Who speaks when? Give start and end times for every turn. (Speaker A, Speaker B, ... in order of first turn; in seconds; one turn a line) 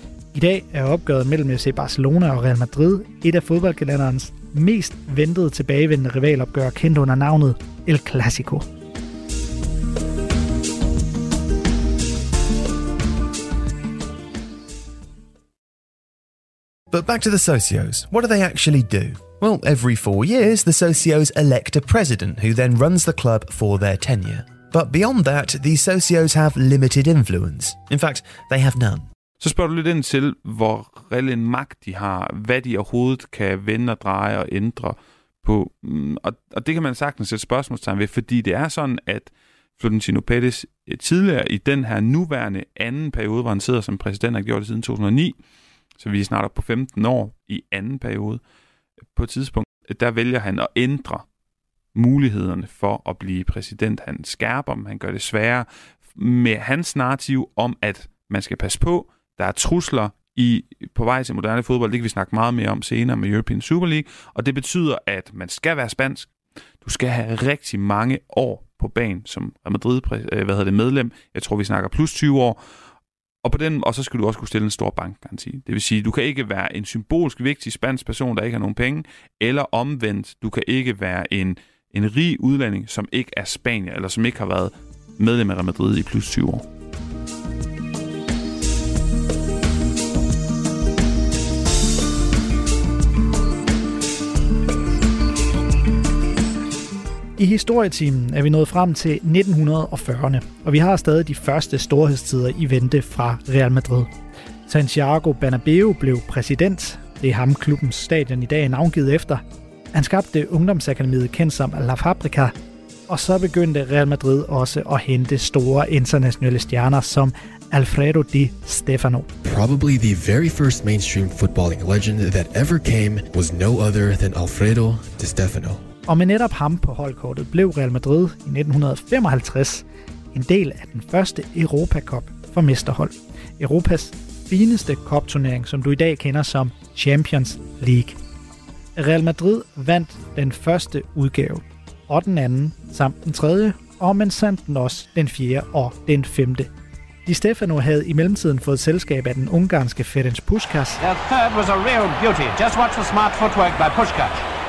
Speaker A: 0.3-8.7
Speaker B: 16.9-29.1
Speaker C: 29.4-45.4
Speaker C: 46.0-48.4
Speaker C: 49.1-51.2
Speaker C: 52.0-66.3
Speaker C: 66.8-72.6
Speaker C: 73.4-86.7
Speaker A: 97.4-104.1
Speaker A: 104.7-112.5
Speaker A: 113.1-119.3
Speaker D: 119.5-125.8
Speaker A: 126.1-138.2
Speaker A: 139.0-146.7
Speaker A: 147.3-151.0
Speaker E: 151.0-154.4